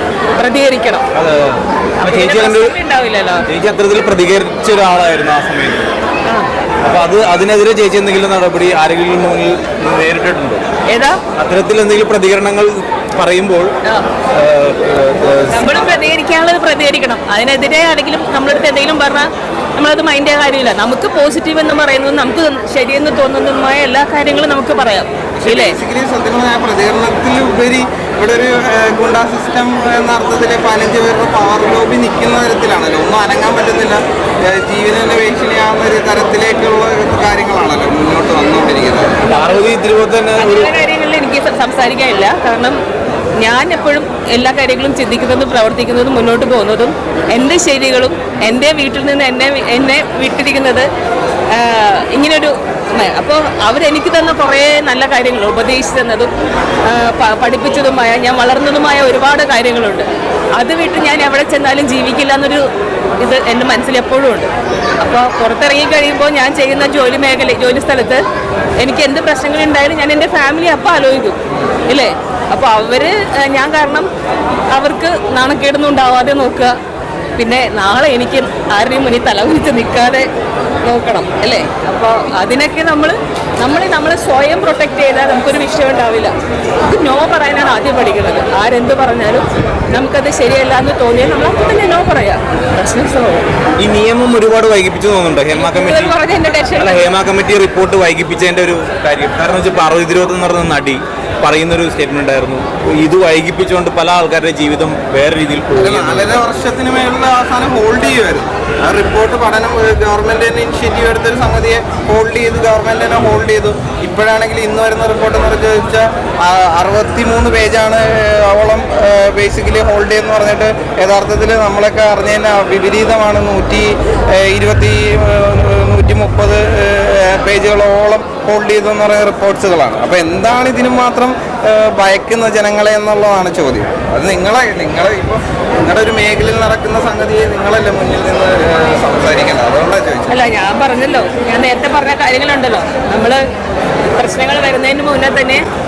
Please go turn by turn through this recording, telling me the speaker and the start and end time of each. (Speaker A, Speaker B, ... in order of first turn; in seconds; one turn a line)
Speaker A: 0.4-1.1
Speaker B: 1.1-2.7
Speaker A: 2.0-3.5
Speaker B: 3.5-5.9
Speaker B: 6.8-10.6
Speaker A: 10.9-11.2
Speaker B: 11.4-13.7
Speaker B: 14.3-16.0
Speaker A: 15.5-25.8
Speaker C: 25.4-39.3
Speaker B: 39.2-40.7
Speaker A: 39.3-39.6
Speaker A: 40.4-42.8
Speaker A: 43.4-50.9
Speaker A: 51.5-56.3
Speaker A: 56.9-62.6
Speaker A: 63.2-68.2
Speaker A: 68.8-74.1
Speaker A: 74.7-76.8
Speaker A: 77.4-80.3
Speaker A: 80.8-86.3
Speaker A: 86.8-93.4
Speaker B: 93.8-96.2
Speaker A: 95.5-97.1
Speaker B: 96.8-106.5
Speaker C: 105.8-140.5
Speaker A: 140.3-143.4
Speaker A: 144.2-145.7